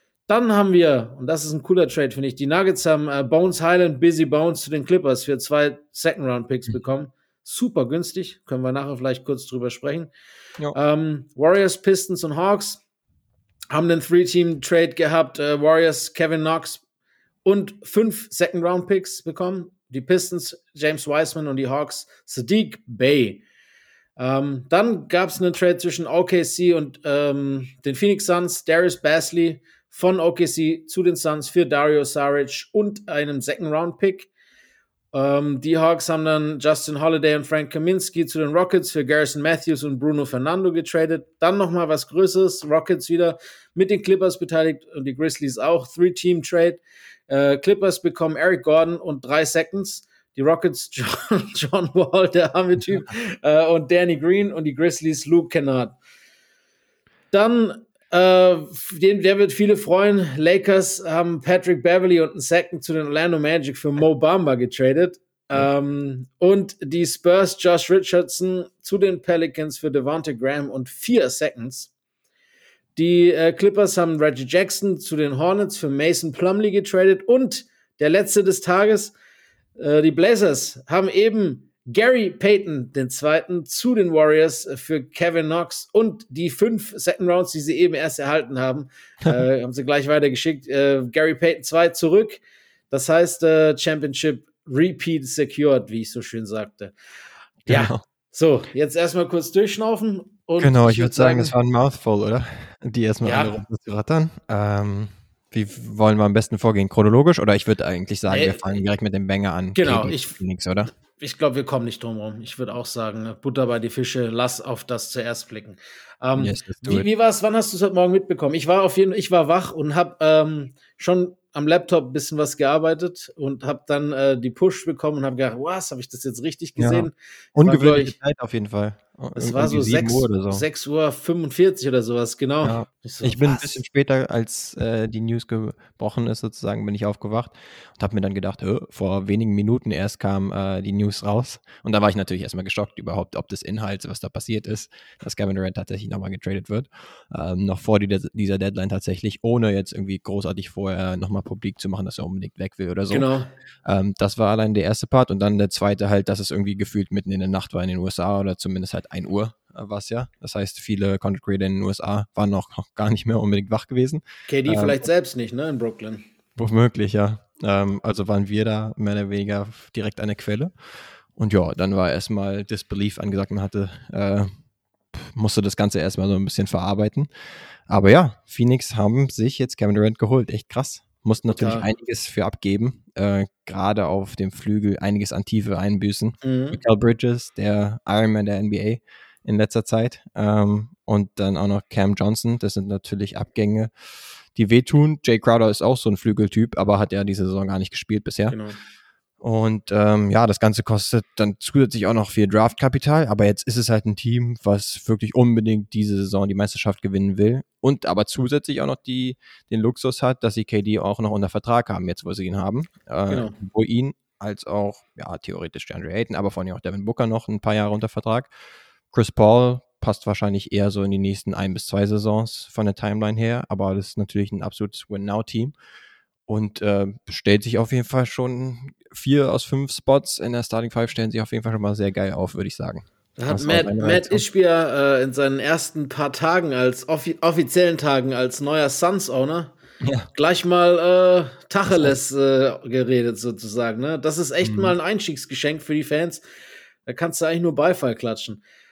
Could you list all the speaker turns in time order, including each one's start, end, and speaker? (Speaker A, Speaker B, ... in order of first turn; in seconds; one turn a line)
Speaker A: 0.3-10.1
Speaker A: 10.7-12.8
Speaker A: 13.7-16.8
Speaker A: 17.4-23.4
Speaker A: 24.2-34.3
Speaker A: 35.1-55.9
Speaker A: 57.3-71.9
Speaker A: 73.0-79.1
Speaker A: 79.8-96.9
Speaker B: 97.7-98.0
Speaker A: 97.7-101.5
Speaker B: 100.6-110.9
Speaker A: 103.2-103.6
Speaker A: 108.3-108.6
Speaker A: 109.7-110.3
Speaker A: 111.1-128.1
Speaker B: 116.4-117.0
Speaker B: 126.8-130.6
Speaker A: 129.3-133.7
Speaker B: 132.6-153.3
Speaker A: 153.1-153.5
Speaker B: 153.8-165.0
Speaker A: 164.5-166.2
Speaker B: 166.6-170.7
Speaker B: 171.3-174.5
Speaker B: 175.1-177.3
Speaker B: 177.9-193.9
Speaker A: 181.5-181.9
Speaker A: 186.4-186.8
Speaker B: 194.5-198.6
Speaker A: 198.5-198.8
Speaker B: 199.4-218.5
Speaker A: 213.3-213.5
Speaker B: 219.1-225.7
Speaker B: 226.5-234.4
Speaker A: 233.4-239.7
Speaker B: 240.0-240.3
Speaker A: 240.3-246.4
Speaker B: 241.9-242.1
Speaker B: 244.6-244.9
Speaker A: 247.1-248.6